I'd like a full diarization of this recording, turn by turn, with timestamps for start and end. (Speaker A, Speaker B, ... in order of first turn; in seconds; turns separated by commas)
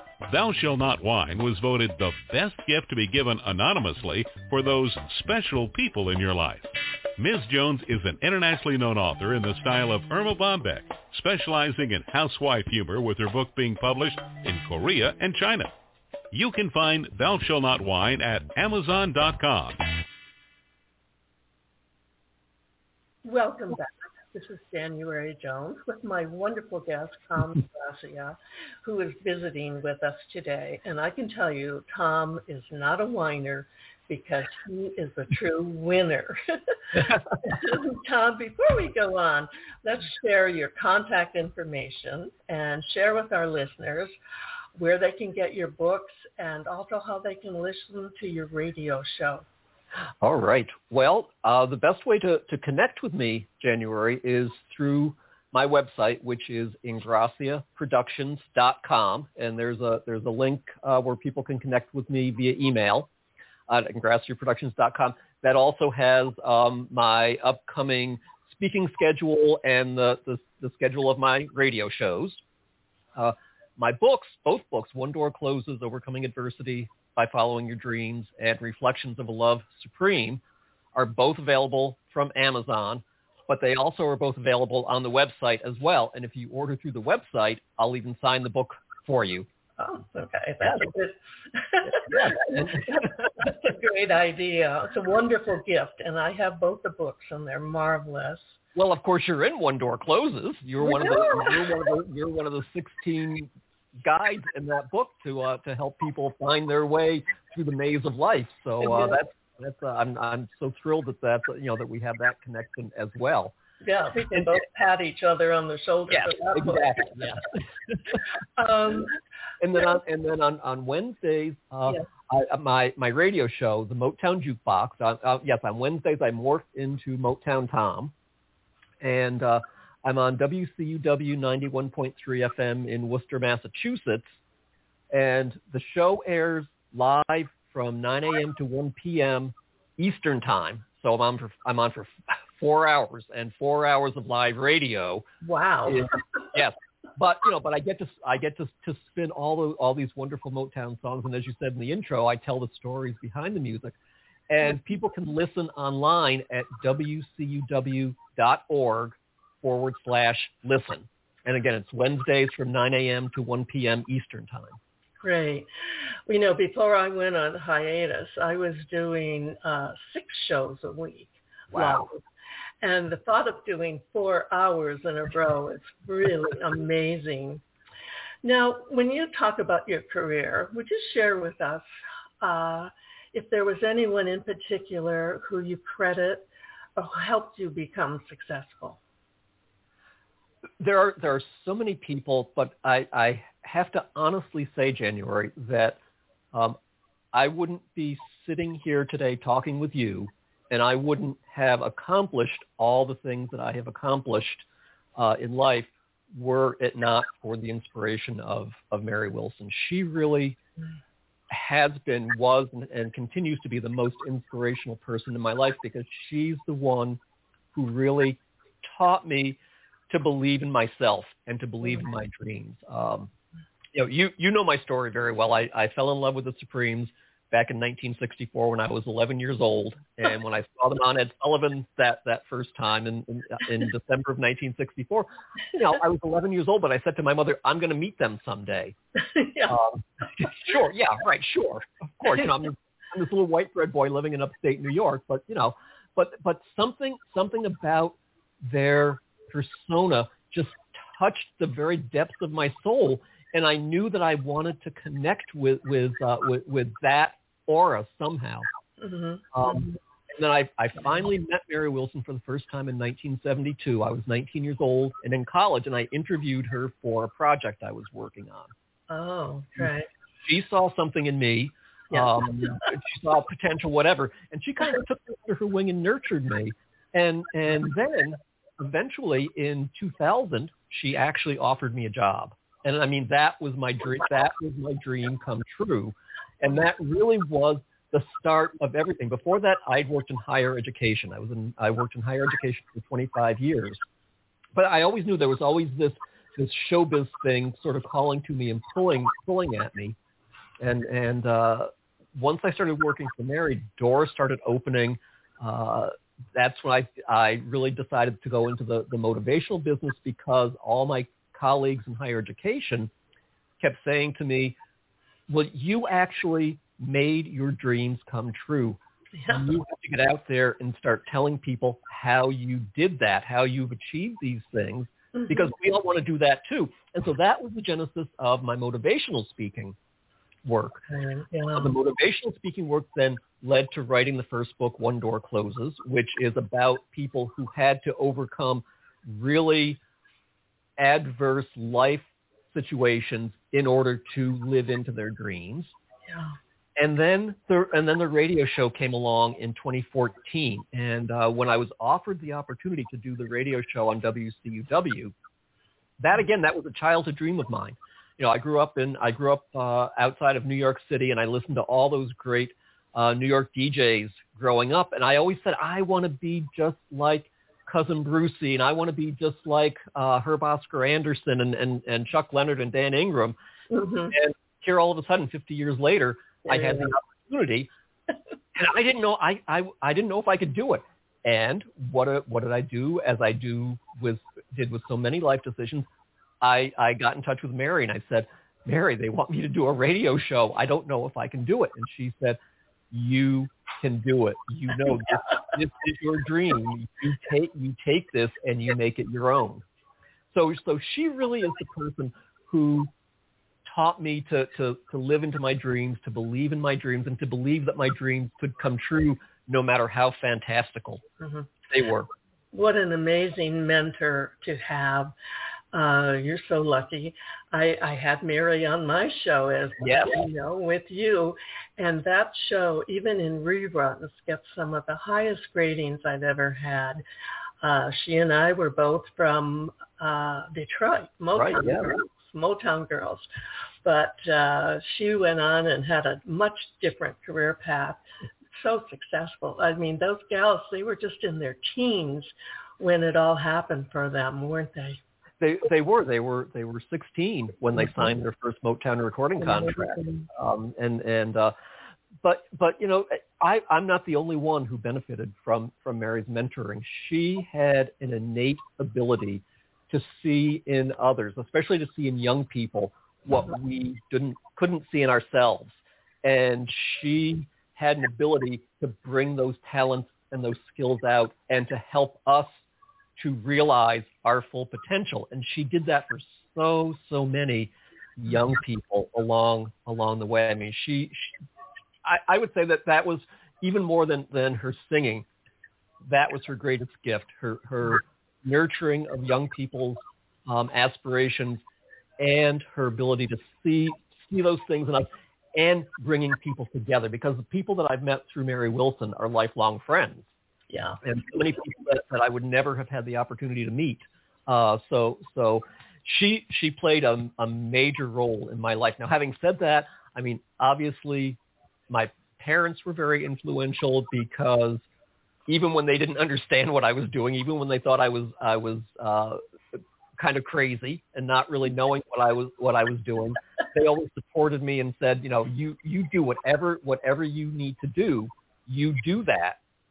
Speaker A: 0.3-15.7, Speaker A: 16.3-19.9, Speaker B: 23.2-44.1, Speaker B: 44.8-49.5, Speaker C: 50.2-63.1, Speaker C: 63.7-72.4, Speaker C: 73.1-80.4, Speaker C: 80.9-89.5, Speaker B: 89.8-98.5, Speaker C: 92.0-92.9, Speaker C: 98.8-103.5, Speaker B: 100.8-101.6, Speaker C: 104.0-113.5, Speaker B: 108.8-109.2, Speaker B: 113.8-117.3, Speaker C: 116.1-117.4, Speaker B: 118.6-119.1, Speaker C: 119.6-128.1, Speaker C: 129.0-134.3, Speaker C: 135.1-145.2, Speaker B: 145.4-146.2, Speaker C: 145.8-153.9, Speaker C: 154.5-164.8, Speaker B: 165.2-165.7, Speaker B: 166.3-172.2, Speaker C: 171.7-172.1, Speaker B: 172.8-177.6, Speaker B: 178.4-181.8, Speaker B: 182.4-189.0, Speaker C: 190.8-196.0, Speaker C: 197.3-204.6, Speaker C: 205.2-210.6, Speaker C: 211.5-217.2, Speaker C: 217.7-219.6, Speaker C: 220.1-223.3, Speaker C: 223.9-238.9, Speaker B: 239.3-239.8, Speaker C: 239.7-258.7, Speaker B: 259.0-259.9, Speaker C: 259.5-268.7, Speaker B: 269.1-270.1, Speaker C: 270.4-294.0, Speaker C: 294.7-300.1, Speaker C: 300.8-313.1, Speaker C: 313.8-314.8, Speaker C: 315.5-329.9, Speaker C: 330.6-331.0, Speaker B: 331.1-331.9, Speaker C: 331.7-340.0, Speaker C: 341.0-345.9, Speaker C: 347.0-355.3, Speaker C: 356.2-373.6, Speaker B: 373.9-374.3, Speaker C: 374.3-377.9, Speaker B: 376.7-377.1, Speaker C: 378.7-386.1, Speaker C: 386.6-392.6, Speaker C: 393.1-399.8, Speaker C: 400.5-403.1, Speaker C: 403.9-411.2, Speaker B: 411.4-411.7, Speaker C: 411.9-412.3, Speaker B: 412.7-415.3, Speaker B: 415.9-427.2, Speaker C: 420.0-420.4, Speaker B: 427.8-433.4, Speaker C: 431.5-432.1, Speaker B: 434.0-438.2, Speaker B: 438.7-445.2, Speaker C: 445.6-451.7, Speaker B: 449.6-450.5, Speaker C: 452.4-472.7, Speaker C: 473.4-481.5, Speaker C: 482.2-485.5, Speaker C: 486.2-491.8, Speaker C: 492.4-500.4, Speaker B: 500.9-501.2, Speaker C: 501.2-511.6, Speaker C: 512.1-515.0, Speaker C: 515.7-519.6, Speaker C: 520.4-529.8